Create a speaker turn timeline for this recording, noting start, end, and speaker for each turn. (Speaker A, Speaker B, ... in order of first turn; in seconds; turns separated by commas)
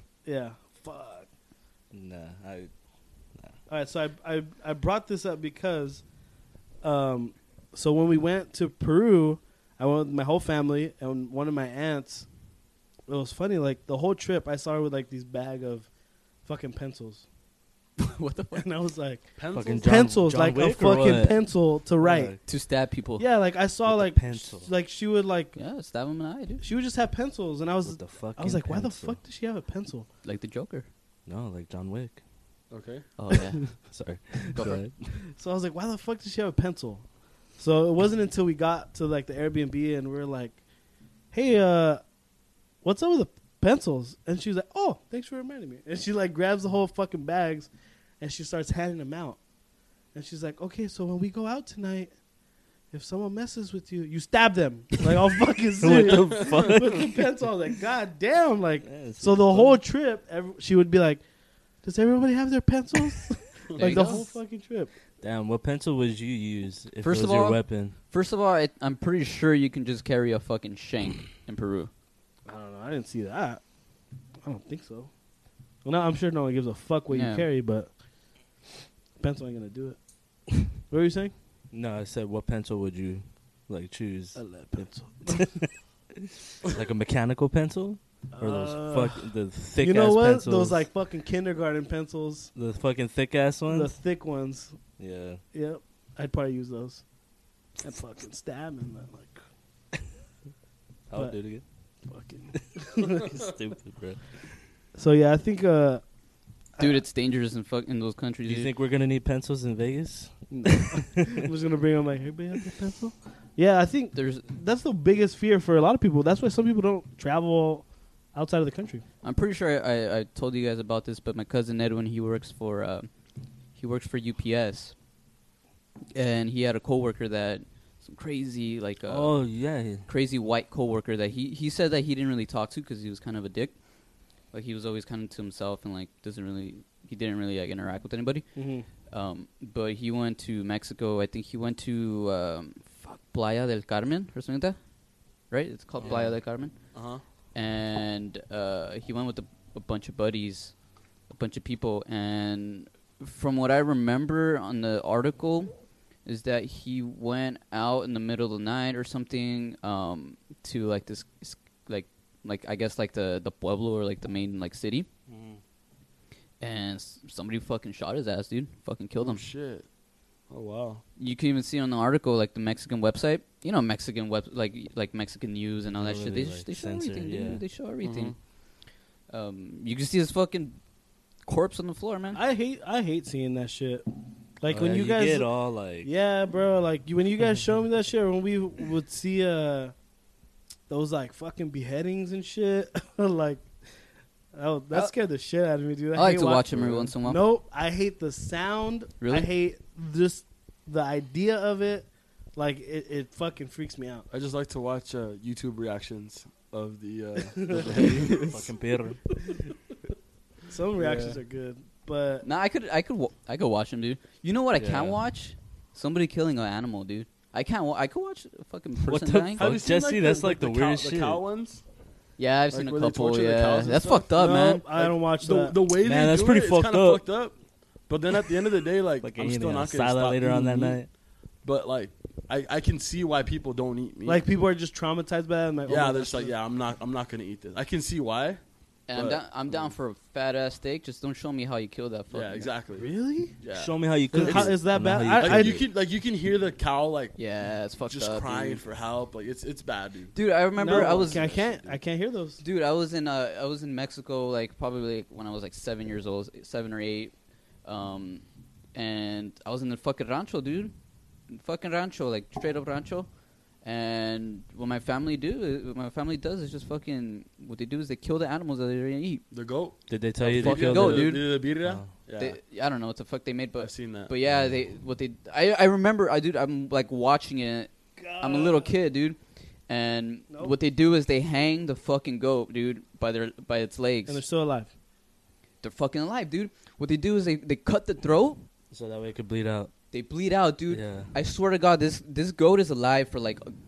Speaker A: 0.2-1.3, Speaker B: 1.9-2.7, Speaker A: 3.7-6.0, Speaker A: 6.8-12.3, Speaker A: 13.1-15.9, Speaker A: 16.4-17.2, Speaker C: 18.0-18.6, Speaker A: 18.5-22.4, Speaker D: 19.4-20.1, Speaker B: 19.5-21.4, Speaker B: 22.0-22.4, Speaker C: 22.4-23.2, Speaker A: 23.2-25.6, Speaker B: 23.9-24.7, Speaker C: 25.6-26.6, Speaker A: 26.6-30.1, Speaker B: 27.8-29.2, Speaker C: 30.2-30.9, Speaker B: 31.2-32.2, Speaker D: 32.7-33.0, Speaker C: 33.2-33.7, Speaker B: 33.9-35.1, Speaker C: 34.5-34.8, Speaker A: 35.3-37.0, Speaker A: 37.6-40.6, Speaker A: 41.3-42.0, Speaker A: 42.8-49.4, Speaker A: 50.1-52.1, Speaker A: 52.9-61.2, Speaker B: 55.8-57.2, Speaker D: 56.1-56.7, Speaker B: 58.8-59.8, Speaker A: 61.8-64.9, Speaker C: 63.8-64.3, Speaker B: 65.2-67.9, Speaker C: 67.0-71.9, Speaker A: 72.5-73.6, Speaker A: 74.4-75.1, Speaker A: 75.8-77.9, Speaker C: 77.1-77.5, Speaker A: 79.2-80.0, Speaker A: 80.9-81.3, Speaker B: 81.7-85.7, Speaker A: 84.3-85.6, Speaker B: 86.6-90.8, Speaker A: 88.3-92.5, Speaker B: 92.5-93.9, Speaker A: 93.7-94.8, Speaker B: 95.0-95.4, Speaker A: 95.5-97.0, Speaker A: 97.8-99.4, Speaker B: 101.1-101.6, Speaker A: 102.0-103.4, Speaker B: 102.5-104.2, Speaker A: 104.9-106.0, Speaker C: 106.8-108.7, Speaker B: 108.5-111.2, Speaker A: 110.5-119.0, Speaker C: 114.1-114.4, Speaker C: 119.2-123.1, Speaker C: 123.8-124.9, Speaker C: 126.1-129.4, Speaker B: 129.1-130.1, Speaker C: 130.0-133.7, Speaker C: 134.5-138.5, Speaker A: 138.5-138.9, Speaker C: 139.1-144.8, Speaker C: 145.5-146.7, Speaker D: 146.0-146.3, Speaker D: 146.9-147.2, Speaker C: 147.5-150.7, Speaker C: 151.3-155.7, Speaker C: 156.2-165.1, Speaker D: 165.3-165.6, Speaker C: 166.6-169.4, Speaker D: 169.2-169.8, Speaker D: 170.5-171.0, Speaker C: 171.2-178.3, Speaker B: 175.9-177.6, Speaker D: 178.0-178.3, Speaker C: 179.3-180.8, Speaker C: 181.4-182.4, Speaker A: 182.3-184.0, Speaker A: 184.6-189.9, Speaker B: 184.7-186.1, Speaker A: 190.9-193.7, Speaker A: 194.5-204.3, Speaker C: 196.1-197.4, Speaker D: 196.7-197.1, Speaker C: 199.2-199.5, Speaker D: 204.3-208.6, Speaker A: 207.6-207.9, Speaker B: 207.9-209.2, Speaker C: 208.2-208.5, Speaker A: 210.7-212.4, Speaker D: 210.9-211.4, Speaker C: 212.4-219.7, Speaker B: 214.8-215.2, Speaker B: 219.0-221.4, Speaker D: 219.6-221.8, Speaker C: 222.4-224.8, Speaker D: 222.7-224.3, Speaker A: 224.3-225.8, Speaker D: 224.9-227.6, Speaker B: 226.0-227.2, Speaker D: 228.1-231.0, Speaker B: 229.2-231.1, Speaker D: 231.6-234.4, Speaker A: 234.2-236.5, Speaker D: 235.9-238.6, Speaker C: 239.1-242.7, Speaker D: 239.1-239.9, Speaker D: 242.3-243.1, Speaker A: 242.9-243.5, Speaker D: 243.6-244.8, Speaker B: 243.7-245.8, Speaker A: 244.3-245.8, Speaker D: 245.3-247.4, Speaker C: 247.4-248.8, Speaker D: 248.1-250.3, Speaker C: 250.3-251.5, Speaker A: 250.8-252.6, Speaker D: 250.8-252.0, Speaker C: 252.6-257.3, Speaker C: 257.8-258.4, Speaker C: 258.9-260.9, Speaker C: 261.5-263.3, Speaker C: 263.8-269.4, Speaker D: 269.5-272.6, Speaker B: 270.1-272.1, Speaker C: 270.6-271.5, Speaker C: 272.4-284.4, Speaker D: 273.8-274.3, Speaker B: 274.5-274.8, Speaker A: 278.2-278.9, Speaker A: 284.3-284.9, Speaker C: 285.8-288.6, Speaker B: 288.9-289.9, Speaker C: 290.1-293.7, Speaker B: 290.9-291.3